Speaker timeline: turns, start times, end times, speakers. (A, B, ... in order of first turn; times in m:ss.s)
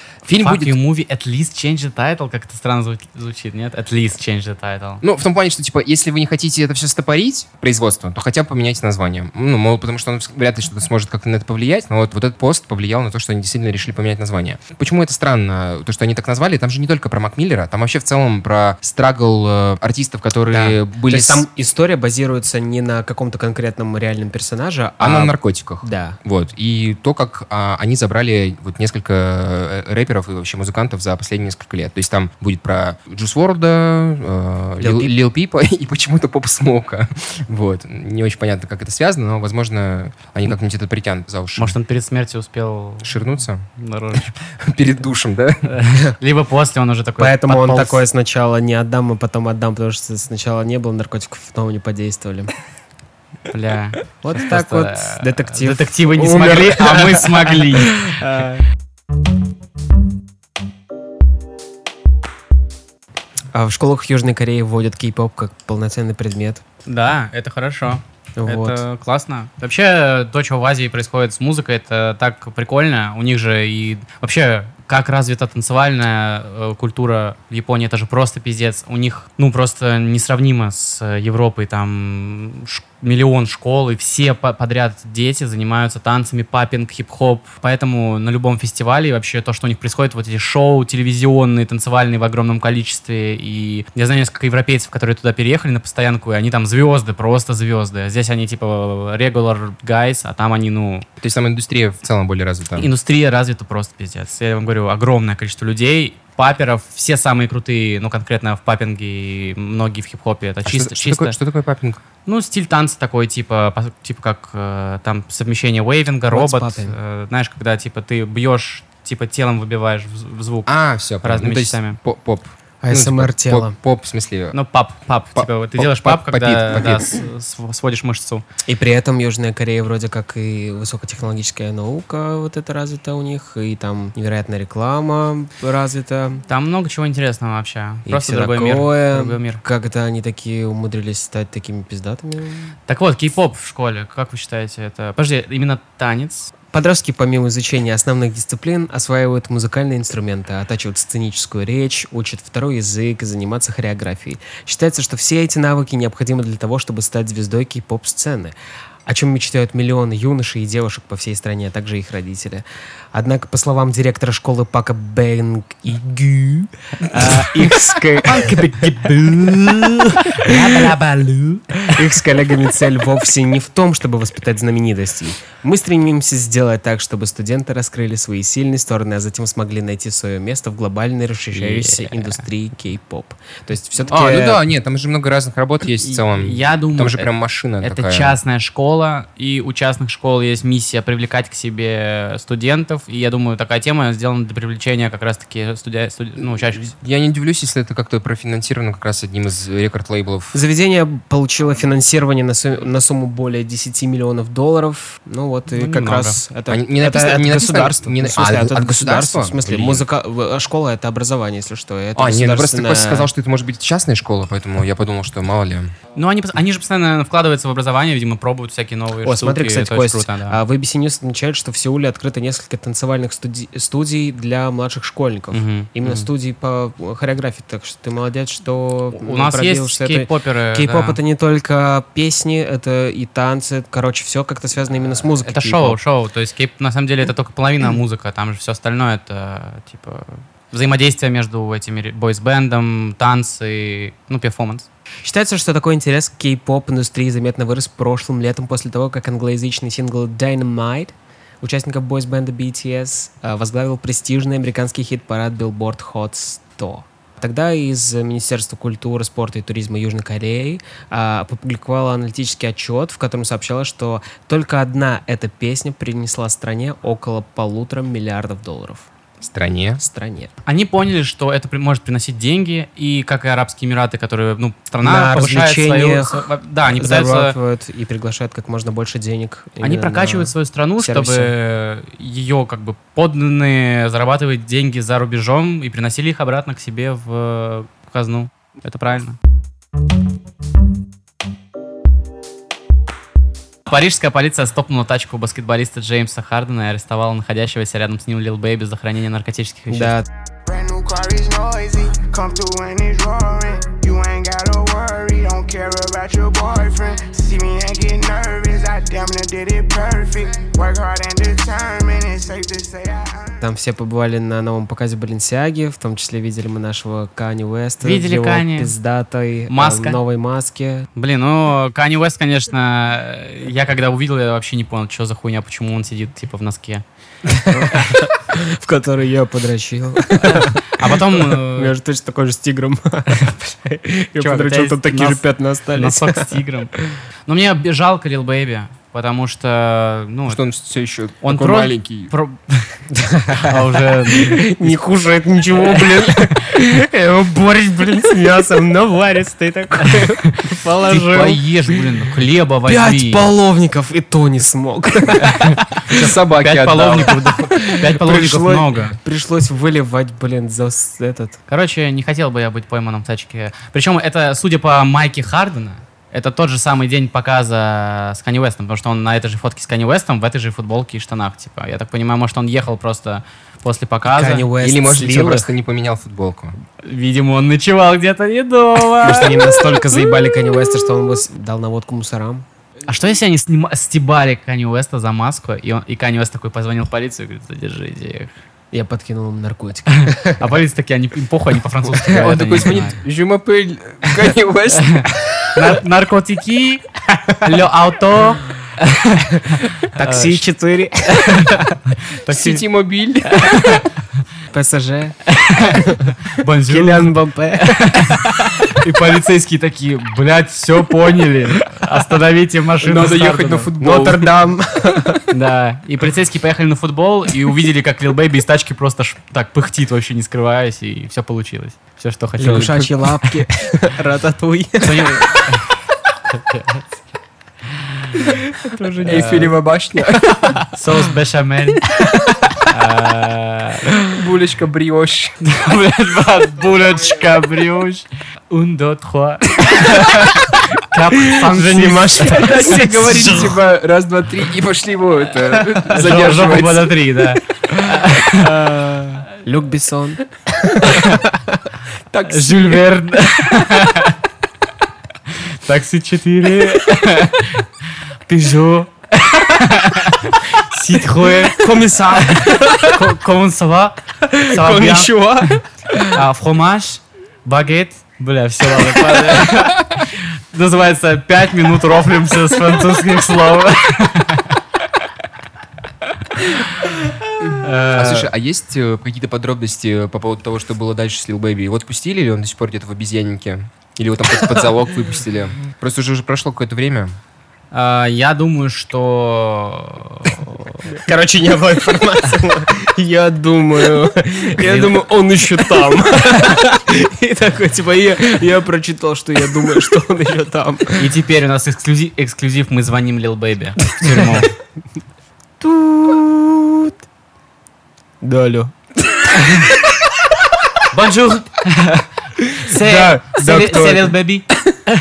0:00.2-0:00.8 A
0:00.4-0:05.0 B
0:05.0-0:21.4 A
0:20.5-0:26.2 C
0:25.0-0:41.8 A
0:34.8-0:35.1 C
0:41.6-0:44.3 B
0:43.0-0:45.7 A
0:45.7-0:48.0 B
0:47.2-0:52.5 C
0:53.5-0:58.1 B
0:54.2-0:58.6 C
1:03.5-1:06.6 C
1:06.8-1:41.0 B
1:08.4-1:08.8 C
1:41.2-1:42.9 A
1:42.8-1:51.4 B
1:50.6-1:52.0 A
1:52.2-2:00.7 B
1:56.3-1:56.9 C
2:00.7-2:04.6 A
2:01.2-2:02.0 B
2:02.8-2:03.7 C
2:04.5-2:08.4 B
2:05.4-2:07.1 A
2:08.6-2:16.4 C
2:16.5-2:19.6 B
2:18.1-2:22.7 C
2:22.9-2:26.5 B
2:26.7-2:38.5 C
2:39.0-2:49.0 C
2:47.0-2:47.7 B
2:48.2-2:52.0 B
2:50.4-2:50.8 C
2:51.8-3:04.6 C
3:01.5-3:02.4 B
3:04.1-3:08.4 A
3:06.0-3:07.3 B
3:07.8-3:16.9 B
3:16.7-3:20.6 A
3:20.5-3:33.3 C
3:25.7-3:26.4 B
3:26.7-3:30.0 A
3:32.2-3:35.9 A
3:36.1-3:40.6 B
3:39.2-3:56.0 C
3:45.5-3:46.3 B
3:49.2-3:51.2 B
3:55.4-4:04.9 B
4:05.2-4:29.1 C
4:29.4-4:30.0 A
4:30.0-4:30.5 C
4:30.6-4:37.6 B
4:35.0-4:41.5 C
4:39.8-4:49.4 B
4:53.9-5:00.1 B
4:59.9-5:00.3 C
5:00.6-5:13.6 D
5:13.6-5:21.1 C
5:18.0-5:18.9 B
5:19.7-5:20.2 B
5:21.2-5:27.0 B
5:27.4-5:37.2 C
5:30.4-5:31.9 B
5:34.4-5:36.9 B
5:37.4-5:40.6 B
5:40.5-5:42.3 A
5:41.4-5:43.0 B
5:43.1-5:51.6 C
5:43.5-5:44.9 B
5:45.9-5:46.4 B
5:50.0-5:53.4 B
5:52.8-5:56.2 C
5:55.4-5:59.2 B
5:56.1-5:57.5 A
5:57.6-6:01.6 C
6:01.7-6:14.7 B
6:14.2-6:15.7 C
6:14.8-6:16.7 A
6:17.0-6:20.0 B
6:19.2-6:22.6 C
6:23.1-6:28.5 B
6:28.9-6:30.8 C
6:30.1-6:33.2 B
6:32.2-6:35.6 A
6:35.0-6:40.6 B
6:40.1-6:42.0 C
6:41.3-6:42.8 B
6:42.5-6:44.0 A
6:43.5-6:44.1 B
6:44.7-6:45.4 C
6:45.4-6:53.9 B
6:45.9-6:48.7 C
6:53.0-6:54.5 A
6:54.0-6:55.4 C
6:55.5-7:03.5 B
7:02.6-7:05.6 C
7:05.0-7:06.0 B
7:06.5-7:07.0 B
7:08.7-7:09.7 C
7:09.0-7:09.7 B
7:09.2-7:10.8 A
7:10.8-7:12.1 B
7:12.8-7:14.0 B
7:14.3-7:15.6 A
7:15.6-7:23.7 B
7:21.4-7:23.6 C
7:22.4-7:27.1 A
7:25.6-7:28.8 B
7:28.1-7:31.8 C
7:31.0-7:31.4 B
7:32.3-7:33.0 A
7:32.4-7:34.4 B
7:35.5-7:37.9 B
7:38.5-7:45.8 B
7:41.6-7:43.2 C
7:44.4-7:46.4 C
7:46.3-7:54.8 B
7:56.5-7:58.5 B
7:57.6-8:07.4 A
8:07.9-8:11.0 B
8:11.0-8:21.3 C
8:14.8-8:15.1 B
8:21.2-8:24.7 B
8:24.2-8:24.7 C
8:25.8-8:27.2 C
8:28.4-8:30.2 C
8:31.1-8:32.2 B
8:32.6-8:34.4 C
8:32.8-8:34.6 B